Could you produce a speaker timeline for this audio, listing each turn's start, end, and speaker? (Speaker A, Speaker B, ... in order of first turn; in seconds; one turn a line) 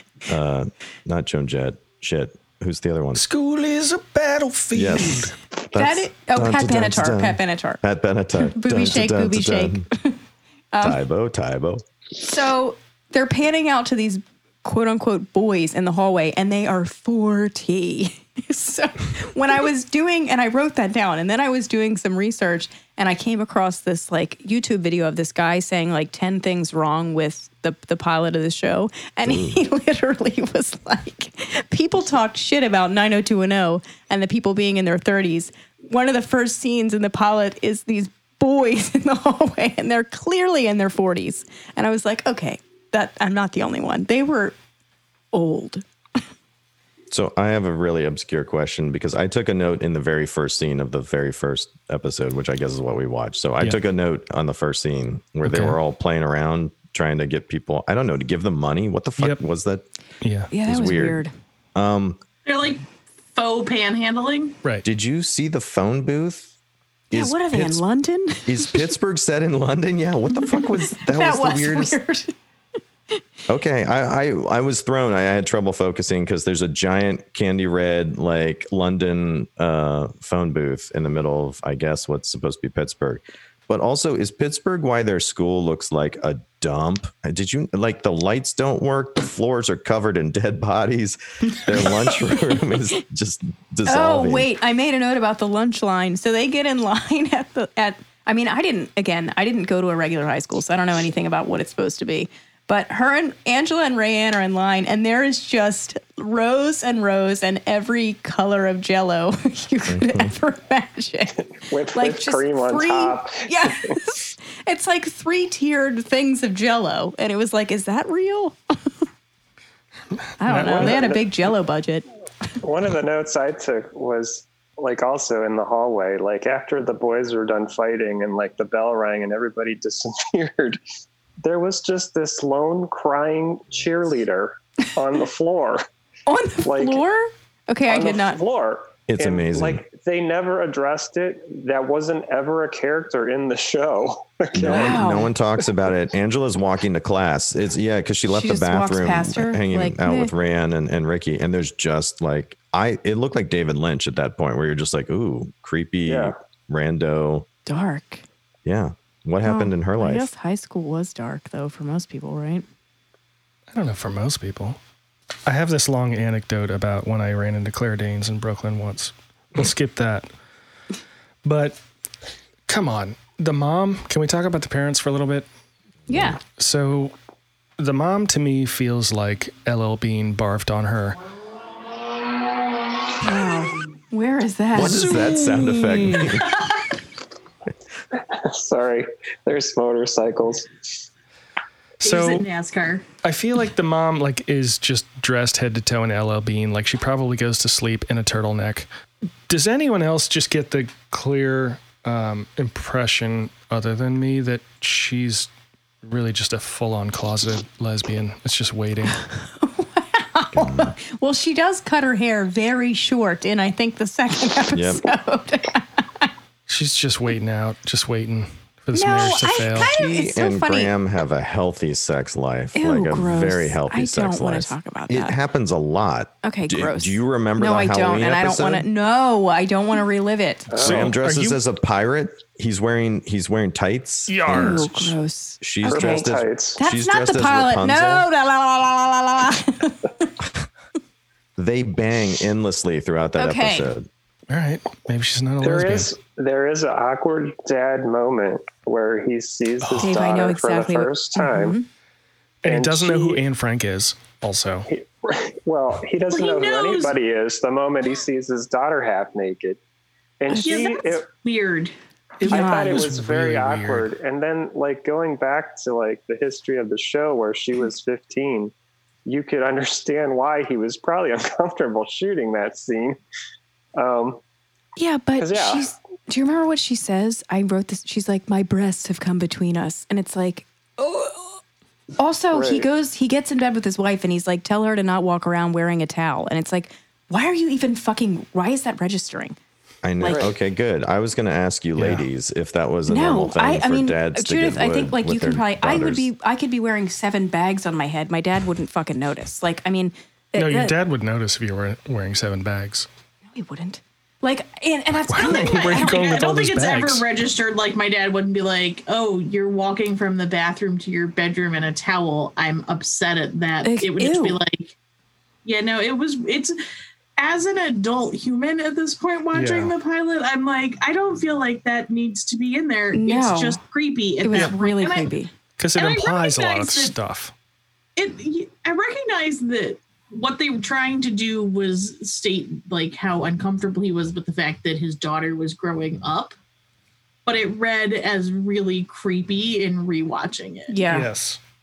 Speaker A: 0.3-3.2
Speaker B: 3.1-5.3
Speaker A: 4.7-9.9
Speaker C: 5.8-7.8
Speaker C: 8.4-10.2
Speaker C: 10.7-11.0
Speaker A: 10.8-11.8
Speaker C: 12.2-44.6
Speaker A: 29.2-29.6
Speaker C: 45.3-45.9
Speaker A: 47.1-59.9
Speaker B: 55.4-55.8
Speaker B: 60.2-60.5
Speaker C: 60.5-61.3
Speaker A: 60.6-61.2
Speaker A: 61.8-62.2
Speaker D: 62.5-64.6
Speaker A: 64.8-66.5
Speaker A: 67.1-67.8
Speaker C: 67.1-68.9
Speaker A: 68.5-72.0
Speaker C: 70.3-72.3
Speaker A: 73.5-94.5
Speaker C: 91.8-92.2
Speaker C: 93.9-118.7
Speaker A: 109.9-110.3
Speaker E: 111.5-114.0
Speaker C: 120.4-122.0
Speaker B: 120.4-121.0
Speaker E: 120.6-121.3
Speaker E: 122.6-130.8
Speaker E: 131.4-135.8
Speaker C: 136.3-138.4
Speaker E: 136.7-137.0
Speaker E: 137.9-145.0
Speaker A: 139.1-139.8
Speaker A: 144.5-157.5
Speaker C: 144.6-145.3
Speaker C: 148.3-150.3
Speaker E: 156.1-156.4
Speaker C: 157.7-158.2
Speaker A: 158.7-160.3
Speaker C: 159.4-162.7
Speaker B: 163.7-164.8
Speaker B: 165.5-170.3
Speaker B: 171.4-171.8
Speaker B: 172.7-175.5
Speaker C: 176.1-176.4
Speaker A: 176.1-176.3
Speaker B: 176.6-177.1
Speaker B: 177.8-181.2
Speaker C: 183.2-185.4
Speaker A: 184.7-186.6
Speaker B: 184.8-185.8
Speaker E: 188.2-190.7
Speaker B: 192.0-192.4
Speaker D: 192.0-193.1
Speaker B: 193.2-198.9
Speaker B: 199.5-205.5
Speaker B: 206.0-209.2
Speaker C: 209.1-216.3
Speaker A: 210.6-211.0
Speaker A: 214.7-215.1
Speaker B: 216.7-219.9
Speaker C: 218.9-220.9
Speaker A: 219.4-228.9
Speaker C: 222.8-225.3
Speaker C: 226.4-230.8
Speaker E: 230.7-231.1
Speaker B: 230.8-231.6
Speaker A: 230.8-234.8
Speaker B: 234.3-235.2
Speaker C: 234.5-240.3
Speaker A: 235.6-238.3
Speaker E: 235.9-236.8
Speaker A: 241.6-244.1
Speaker C: 243.4-243.9
Speaker B: 244.5-246.1
Speaker E: 245.6-251.8
Speaker B: 249.8-250.1
Speaker C: 250.0-251.9
Speaker B: 252.6-254.9
Speaker E: 252.7-253.4
Speaker E: 254.9-259.8
Speaker D: 256.3-257.2
Speaker E: 260.4-261.3
Speaker C: 260.5-260.9
Speaker D: 260.6-261.9
Speaker B: 262.4-264.1
Speaker E: 262.4-268.7
Speaker C: 262.5-263.1
Speaker E: 269.3-273.2
Speaker E: 274.0-274.4
Speaker C: 275.0-281.6
Speaker E: 275.4-275.9
Speaker C: 282.2-289.6
Speaker E: 282.5-282.9
Speaker A: 290.0-296.3
Speaker C: 290.2-290.5
Speaker E: 290.3-290.5
Speaker B: 292.0-292.2
Speaker C: 293.1-300.9
Speaker B: 300.6-303.1
Speaker C: 303.5-306.3
Speaker B: 305.3-307.2
Speaker D: 305.4-314.9
Speaker C: 313.8-314.6
Speaker D: 315.6-316.8
Speaker D: 317.4-325.3
Speaker B: 319.5-319.9
Speaker C: 323.1-323.8
Speaker C: 324.4-325.5
Speaker B: 325.8-327.5
Speaker D: 325.9-327.1
Speaker D: 328.2-336.6
Speaker D: 337.5-341.1
Speaker C: 340.9-341.3
Speaker B: 341.1-341.6